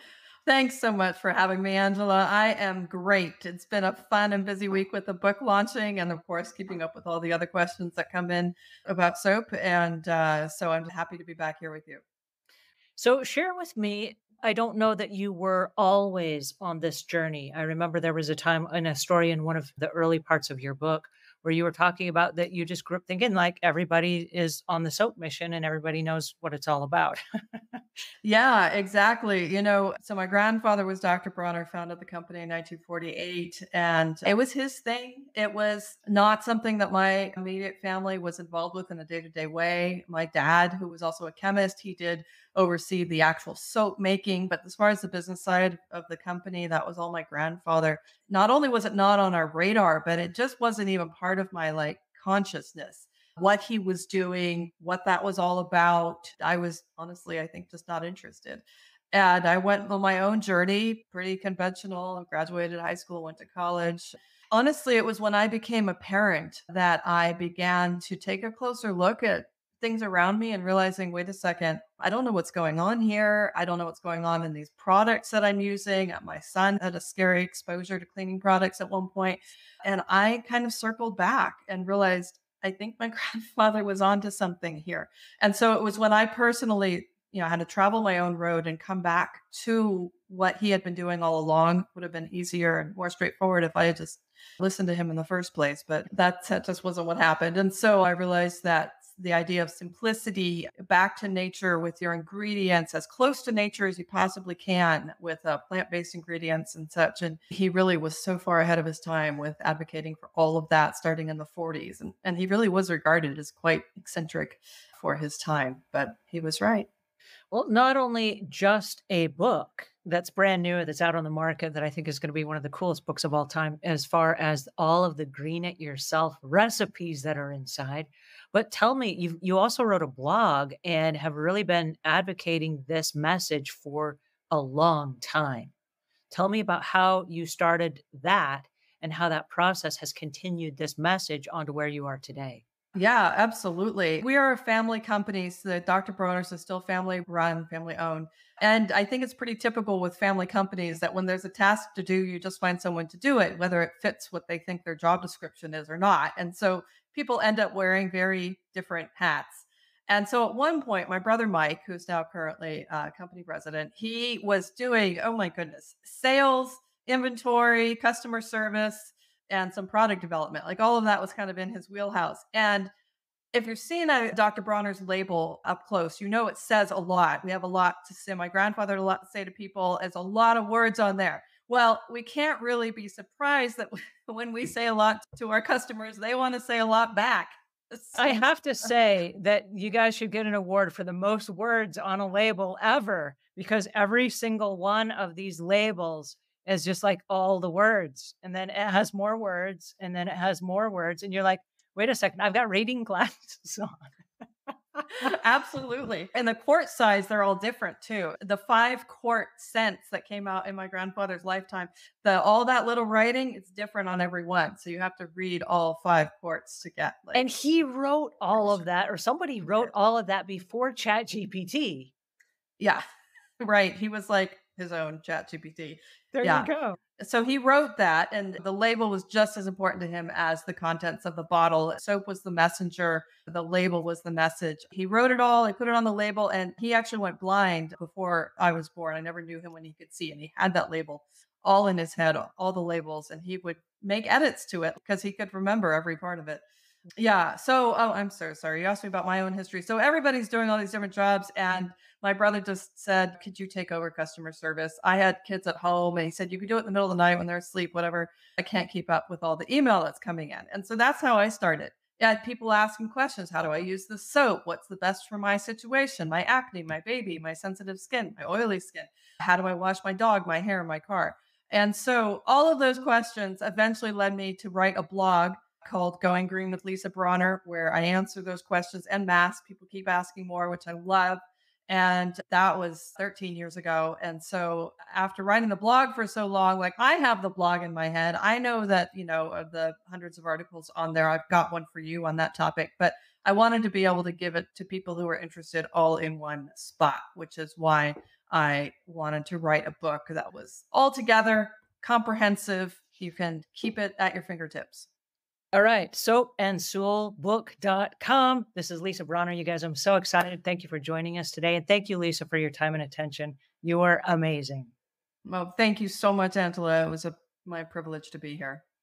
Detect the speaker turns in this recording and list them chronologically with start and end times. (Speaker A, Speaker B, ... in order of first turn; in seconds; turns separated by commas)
Speaker A: 0.5-12.0, Speaker B: 13.0-27.2, Speaker A: 28.2-116.9, Speaker B: 117.5-135.7, Speaker B: 136.3-142.6, Speaker A: 142.9-172.9, Speaker A: 173.5-188.4, Speaker B: 188.2-204.1, Speaker A: 205.2-217.4, Speaker B: 217.3-222.1, Speaker A: 223.6-246.6, Speaker B: 226.3-226.9, Speaker A: 247.2-305.1, Speaker B: 305.7-314.9, Speaker A: 315.4-318.8